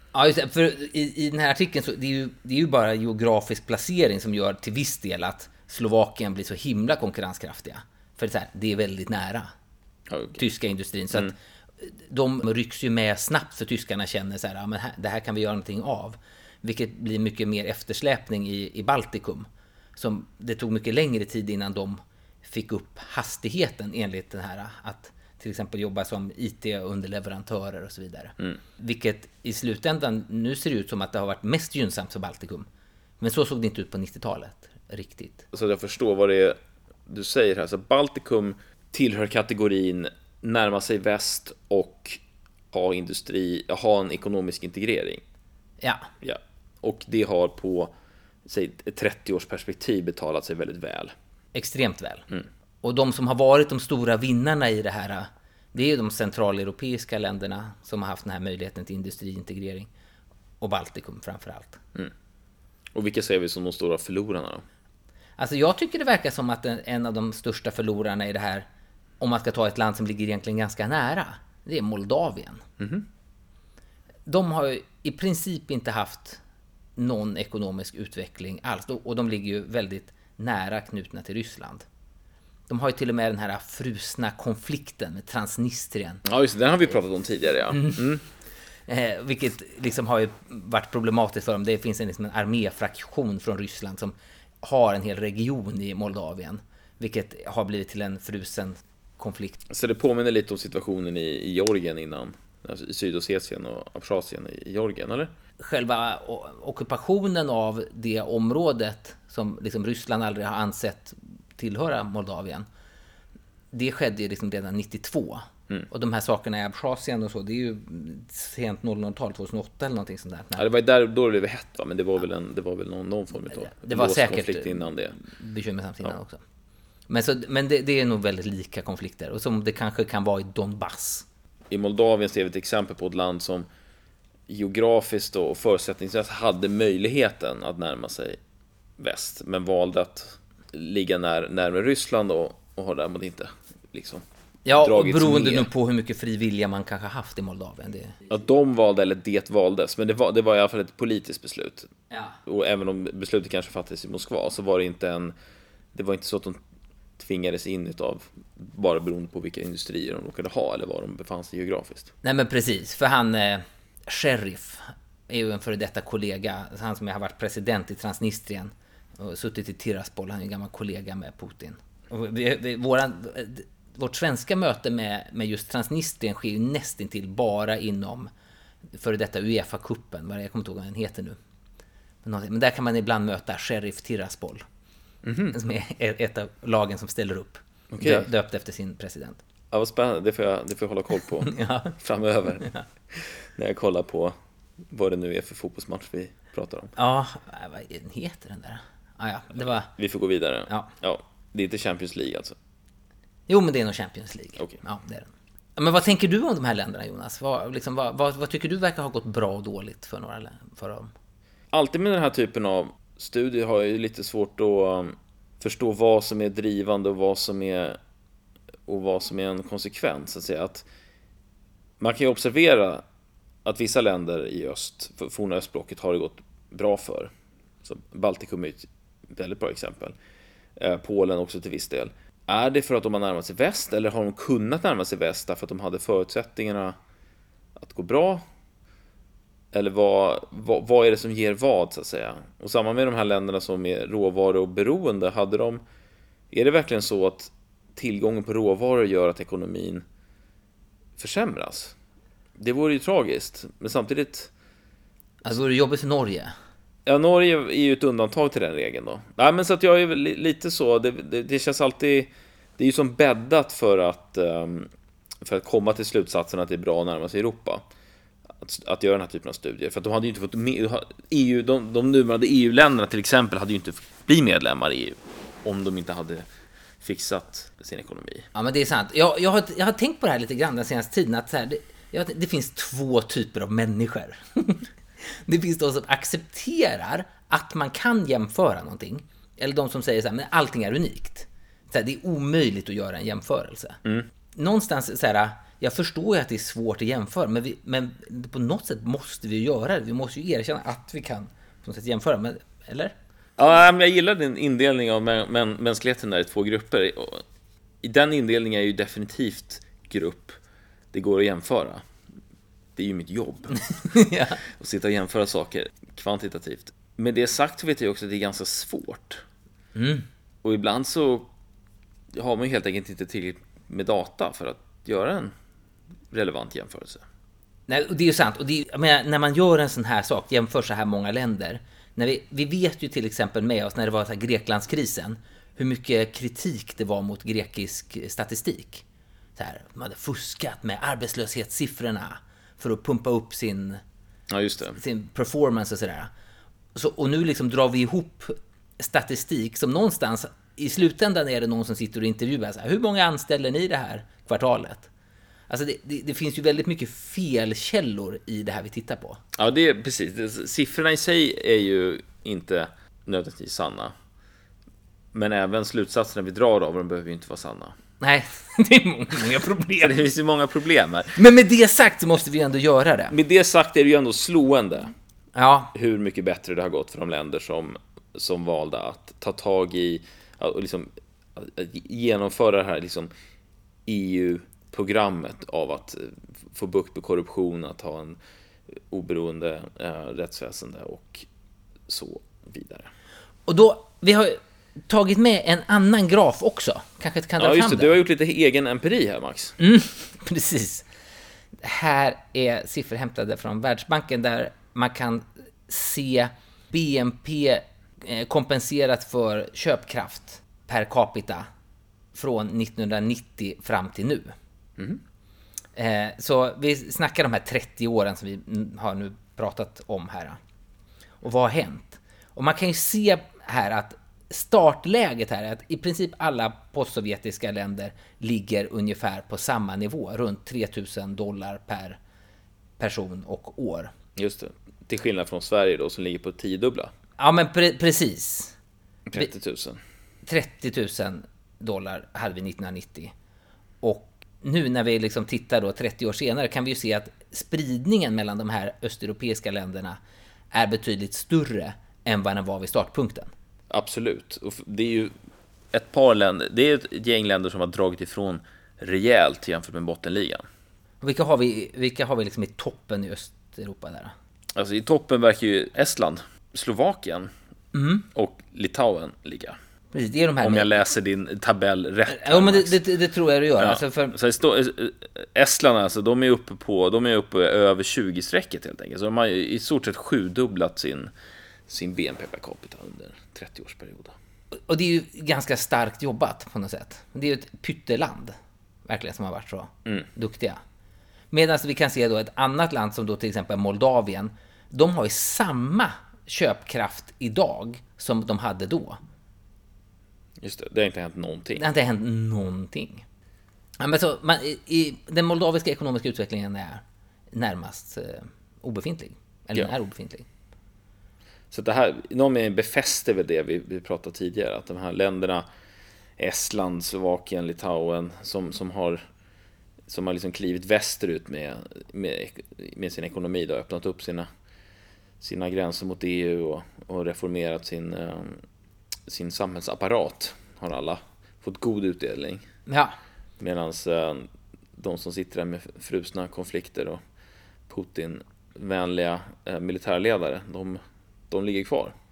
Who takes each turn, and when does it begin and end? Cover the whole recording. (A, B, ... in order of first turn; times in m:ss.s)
0:00.1-0:09.5 A
0:10.1-0:10.4 B
0:10.4-0:32.7 A
0:33.2-0:35.4 A
0:35.5-0:42.2 B
0:42.7-0:45.2 B
0:45.8-0:46.1 A
0:46.2-0:47.9 B
0:48.4-0:51.1 B
0:51.5-0:52.2 A
0:52.8-0:59.9 A
1:00.6-1:01.8 A
1:02.9-1:04.6 B
1:05.4-1:08.6 A
1:09.2-1:12.6 A
1:12.8-1:13.0 B
1:14.3-1:16.4 A
1:17.0-1:21.8 A
1:22.7-1:26.2 A
1:26.2-1:28.2 B
1:27.7-1:28.0 A
1:28.9-1:39.6 A
1:39.7-1:45.3 B
1:45.6-1:52.6 A
1:53.7-2:00.6 A
2:00.6-2:05.2 B
2:03.5-2:06.4 A
2:07.1-2:11.2 A
2:11.7-2:13.7 B
2:14.5-2:18.4 B
2:19.0-2:24.2 B
2:24.6-2:28.2 A
2:24.8-2:25.7 B
2:28.3-2:31.9 B
2:32.1-2:32.4 A
2:32.4-2:35.3 B
2:35.9-2:36.6 B
2:37.2-2:42.1 B
2:42.2-2:58.3 A
2:58.9-3:01.4 A
3:02.2-3:04.6 A
3:05.2-3:05.5 B
3:05.5-3:09.4 A
3:07.9-3:08.3 B
3:09.7-3:14.3 B
3:11.4-3:11.9 A
3:14.9-3:16.9 B
3:17.0-3:19.9 A
3:19.6-3:22.6 B
3:23.5-3:31.1 A
3:31.7-3:38.0 B
3:38.9-3:40.8 B
3:42.0-3:43.0 B
3:43.6-3:47.3 B
3:47.8-3:50.2 B
3:50.8-3:57.0 B
3:57.8-3:58.4 B
3:59.7-4:05.8 B
4:06.5-4:10.0 B
4:11.2-4:11.9 B
4:12.6-4:14.5 B
4:15.4-4:16.5 A
4:17.0-4:24.9 B
4:25.4-4:27.8 B
4:28.5-4:36.4 B
4:37.0-4:38.4 B
4:38.5-4:54.0 A
4:54.5-5:03.1 A
5:03.6-5:07.4 B
5:08.0-5:10.6 B
5:11.1-5:12.0 B
5:13.0-5:19.4 B
5:14.0-5:14.6 A
5:19.9-5:20.2 A
5:20.6-5:21.5 B
5:22.3-5:25.5 B
5:26.3-5:27.2 B
5:27.9-5:39.0 A
5:39.6-5:44.0 A
5:44.5-5:45.0 B
5:45.0-5:46.3 A
5:46.9-5:55.1 A
5:55.7-5:59.4 A
5:59.5-6:04.1 B
6:05.3-6:08.0 B
6:08.2-6:10.2 A
6:10.0-6:11.4 B
6:11.4-6:13.3 A
6:13.3-6:15.1 B
6:15.5-6:15.9 A
6:15.9-6:23.3 B
6:24.0-6:28.4 B
6:29.1-6:31.5 B
6:32.1-6:33.1 B
6:33.7-6:38.1 A
6:37.6-6:39.7 B
6:39.8-6:41.0 A
6:41.8-6:51.7 A
6:52.3-6:54.5 A
6:56.0-7:00.6 A
7:01.4-7:12.2 A
7:13.0-7:14.1 A
7:14.4-7:17.1 B
7:17.4-7:18.8 A
7:19.3-7:20.0 B
7:20.4-7:23.3 A
7:24.0-7:30.2 A
7:30.7-7:33.5 A
7:33.9-7:35.3 B
7:35.9-7:40.6 B
7:41.2-7:44.3 A
7:44.7-7:47.5 B
7:47.9-7:48.2 A
7:48.3-7:49.8 B
7:50.1-7:50.9 A
7:50.6-7:53.0 B
7:52.3-7:54.4 A
7:53.8-8:01.3 B
8:01.9-8:04.3 B
8:04.7-8:08.5 A
8:09.0-8:10.8 A
8:11.5-8:19.2 A
8:20.6-8:21.8 B
8:21.8-8:23.2 A
8:24.0-8:30.5 A
8:31.7-8:35.6 B
8:36.4-8:39.2 B
8:40.1-8:44.5 B
8:45.4-8:48.6 B
8:49.3-8:52.6 B
8:52.9-8:53.2 A
8:53.6-8:57.2 B
8:57.9-9:02.1 B